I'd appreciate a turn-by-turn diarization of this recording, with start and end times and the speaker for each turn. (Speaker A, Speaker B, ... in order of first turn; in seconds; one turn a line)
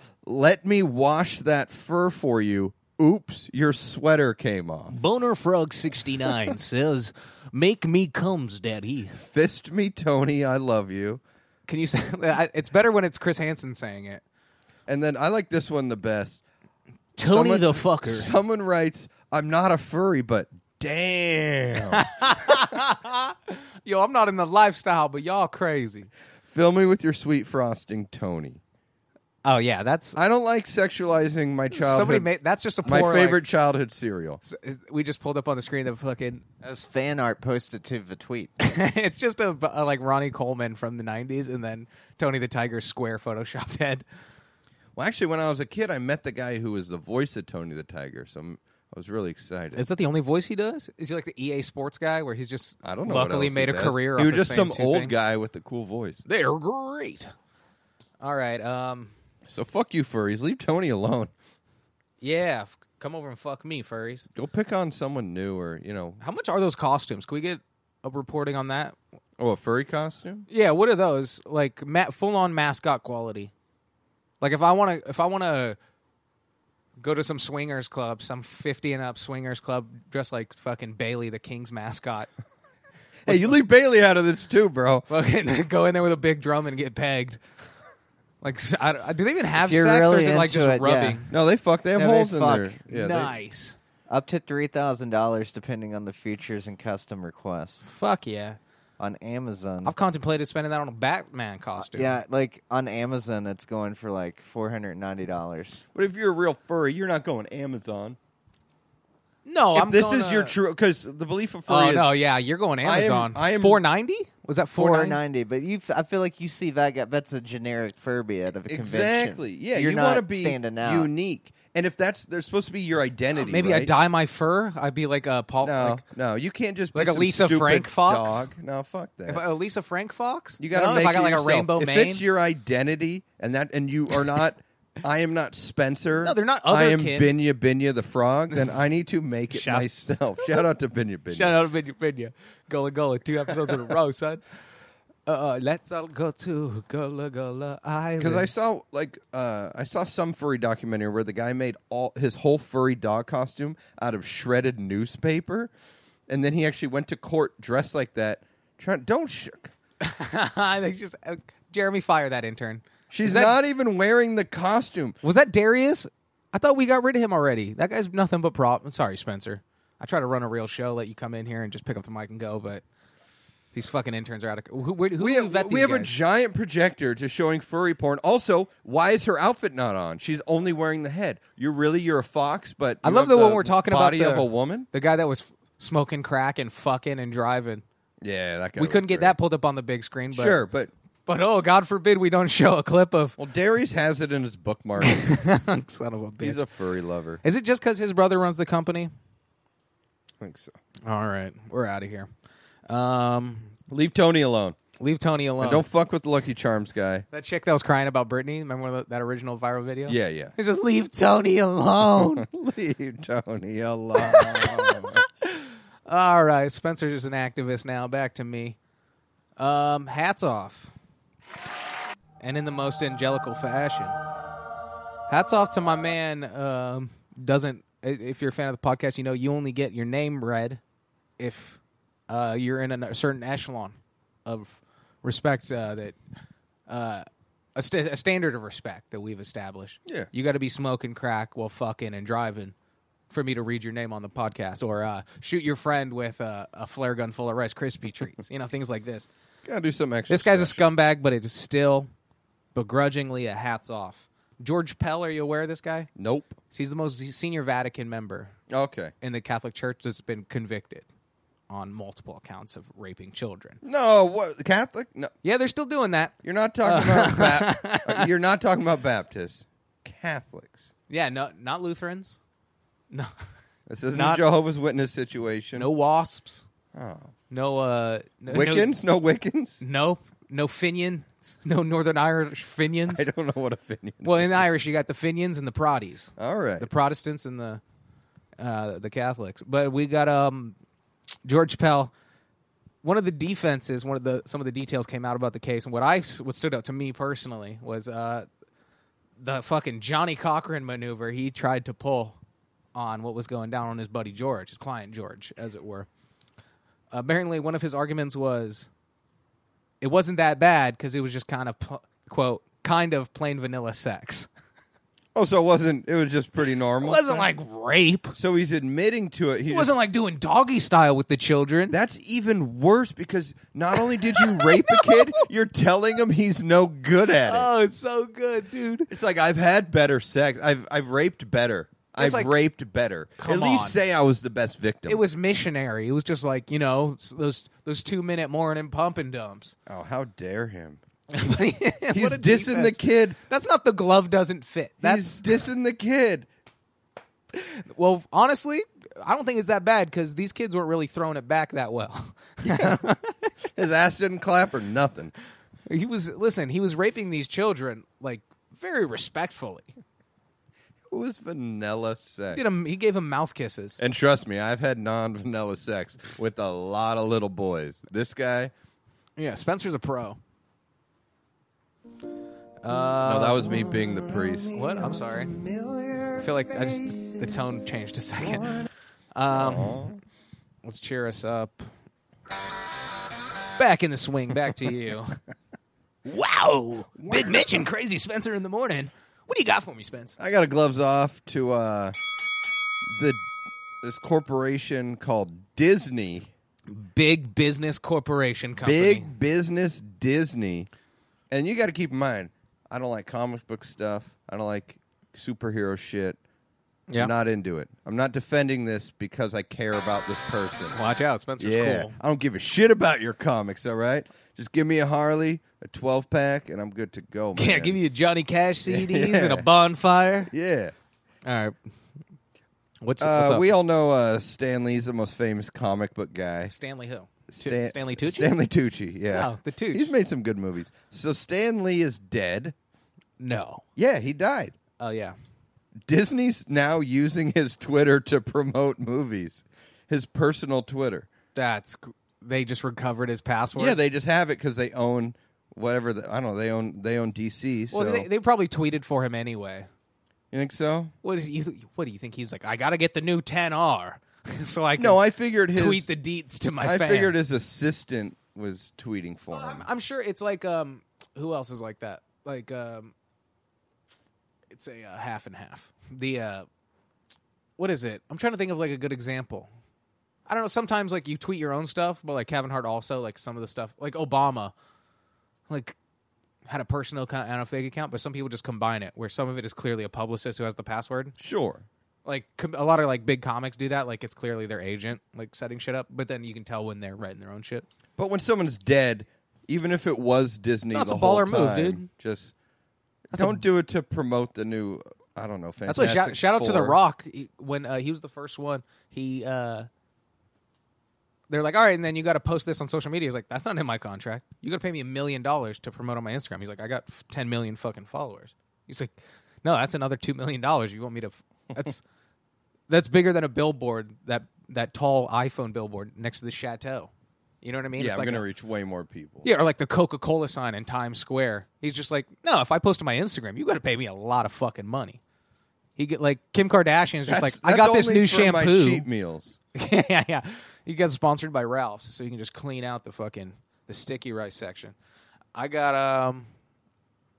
Speaker A: 0.2-5.0
Speaker B: 4.9-9.2
Speaker A: 9.2-11.2
Speaker B: 11.7-14.2
Speaker A: 14.9-16.4
Speaker B: 17.2-18.3
Speaker A: 17.3-22.7
Speaker B: 21.9-26.1
Speaker A: 26.5-28.6
Speaker B: 29.4-30.2
Speaker A: 30.2-32.3
Speaker B: 31.7-33.4
Speaker A: 32.9-34.4
Speaker B: 34.4-36.5
Speaker C: 36.6-38.5
Speaker B: 38.6-44.0
Speaker A: 45.0-49.9
Speaker B: 49.7-55.2
Speaker A: 52.8-56.2
Speaker B: 56.3-57.3
Speaker B: 58.2-59.1
Speaker A: 59.5-61.3
Speaker B: 62.2-64.3
Speaker A: 64.4-66.2
Speaker B: 66.2-69.0
Speaker A: 69.4-70.5
Speaker B: 70.5-73.5
Speaker B: 74.4-75.8
Speaker B: 77.0-82.3
Speaker A: 83.3-85.1
Speaker B: 83.3-83.6
Speaker B: 85.1-87.4
Speaker B: 88.4-91.3
Speaker C: 89.6-91.2
Speaker A: 91.3-93.3
Speaker C: 92.0-92.8
Speaker B: 92.9-93.8
Speaker C: 94.1-97.8
Speaker B: 97.8-98.6
Speaker C: 99.0-99.9
Speaker B: 99.8-102.2
Speaker C: 101.8-105.8
Speaker A: 105.9-108.2
Speaker B: 109.5-110.5
Speaker A: 109.8-112.1
Speaker B: 111.7-115.2
Speaker A: 112.8-113.8
Speaker C: 114.8-121.1
Speaker A: 118.7-123.9
Speaker B: 123.3-126.0
Speaker A: 125.6-129.4
Speaker B: 126.9-128.5
Speaker B: 129.3-132.2
Speaker A: 130.6-141.6
Speaker B: 136.2-137.3
Speaker B: 138.5-138.8
Speaker B: 139.5-140.6
Speaker B: 141.3-144.4
Speaker B: 145.3-148.5
Speaker A: 148.2-155.7
Speaker A: 156.3-159.7
Speaker B: 160.0-163.6
Speaker A: 163.1-165.2
Speaker B: 165.2-172.8
Speaker B: 173.7-176.1
Speaker A: 175.2-184.9
Speaker B: 183.0-187.8
Speaker A: 188.2-189.3
Speaker B: 188.8-190.6
Speaker A: 190.3-190.9
Speaker B: 191.3-193.4
Speaker A: 193.4-195.2
Speaker B: 195.0-196.6
Speaker A: 196.4-197.4
Speaker B: 197.4-199.1
Speaker A: 200.4-200.8
Speaker B: 201.1-202.3
Speaker B: 202.9-203.7
Speaker A: 203.9-204.8
Speaker B: 205.0-205.9
Speaker A: 205.6-207.2
Speaker B: 207.3-212.5
Speaker A: 210.1-210.6
Speaker A: 212.1-215.2
Speaker B: 214.2-218.8
Speaker B: 219.6-220.9
Speaker B: 222.4-224.2
Speaker B: 225.3-230.8
Speaker B: 231.4-236.2
Speaker B: 236.9-242.7
Speaker B: 243.3-249.3
Speaker A: 249.7-250.9
Speaker B: 250.3-252.1
Speaker B: 252.8-256.1
Speaker A: 256.2-256.6
Speaker B: 256.7-258.5
Speaker A: 258.7-259.1
Speaker B: 259.2-261.1
Speaker B: 261.7-263.8
Speaker A: 263.8-265.3
Speaker B: 265.4-268.3
Speaker A: 266.4-270.9
Speaker B: 271.1-272.4
Speaker A: 273.9-275.9
Speaker B: 274.1-274.4
Speaker B: 275.8-276.7
Speaker A: 276.9-277.3
Speaker B: 277.5-278.9
Speaker A: 278.5-279.8
Speaker B: 279.8-283.3
Speaker A: 283.1-284.6
Speaker B: 284.2-287.8
Speaker A: 286.4-286.9
Speaker B: 288.6-290.8
Speaker B: 291.4-292.1
Speaker B: 293.0-298.5
Speaker B: 299.4-302.4
Speaker B: 302.9-306.1
Speaker B: 307.1-308.9
Speaker B: 310.0-314.5
Speaker A: 315.4-317.5
Speaker B: 317.0-318.4
Speaker A: 318.4-319.9
Speaker B: 319.7-322.0
Speaker A: 321.9-327.7
Speaker B: 324.0-325.4
Speaker B: 327.4-329.1
Speaker A: 329.1-335.2
Speaker B: 332.2-332.6
Speaker B: 333.4-334.0
Speaker B: 335.1-339.8
Speaker A: 339.9-341.0
Speaker B: 341.3-345.5
Speaker A: 342.1-343.4
Speaker A: 345.0-346.5
Speaker B: 347.5-353.5
Speaker A: 352.6-353.0
Speaker A: 353.8-355.3
Speaker B: 355.9-359.9
Speaker A: 361.1-362.7
Speaker B: 362.5-364.0
Speaker A: 364.0-368.7
Speaker B: 369.4-370.4
Speaker B: 372.8-373.9
Speaker A: 373.2-374.8
Speaker B: 374.7-375.6
Speaker B: 376.3-380.0
Speaker A: 379.5-380.2
Speaker B: 380.8-381.9
Speaker B: 383.8-385.4
Speaker B: 386.3-390.4
Speaker A: 387.2-387.8
Speaker A: 390.4-392.1
Speaker A: 393.1-393.4
Speaker A: 394.0-396.5
Speaker B: 396.9-399.3
Speaker A: 398.8-400.9
Speaker A: 401.5-406.4
Speaker A: 407.2-411.0
Speaker B: 410.9-412.1
Speaker A: 411.6-418.0
Speaker B: 417.6-420.5
Speaker A: 418.9-419.7
Speaker A: 420.5-420.9
Speaker B: 421.4-421.8
Speaker B: 423.0-423.7
Speaker A: 423.2-426.7
Speaker B: 426.7-428.5
Speaker A: 427.5-432.7
Speaker B: 429.3-430.1
Speaker B: 433.4-433.8
Speaker A: 434.0-434.8
Speaker B: 435.0-435.4
Speaker A: 436.1-441.3
Speaker B: 441.6-444.0
Speaker A: 443.8-448.3
Speaker B: 447.9-449.9
Speaker A: 450.5-451.1
Speaker B: 451.2-455.2
Speaker A: 455.0-456.1
Speaker B: 455.7-457.4
Speaker A: 456.8-459.9
Speaker B: 459.5-463.1
Speaker B: 464.7-466.7
Speaker B: 467.8-469.7
Speaker B: 470.5-474.7
Speaker B: 475.7-476.0
Speaker B: 476.7-481.3
Speaker A: 481.4-481.9
Speaker B: 482.2-487.9
Speaker A: 488.2-492.5
Speaker B: 490.9-492.1
Speaker A: 493.3-497.0
Speaker B: 493.3-493.6
Speaker B: 495.9-499.9
Speaker B: 501.5-512.0
Speaker B: 512.9-517.1
Speaker B: 517.6-518.5
Speaker A: 518.0-519.5
Speaker B: 519.4-525.2
Speaker B: 526.0-529.1
Speaker A: 527.3-529.6
Speaker B: 529.8-535.0
Speaker B: 535.5-536.5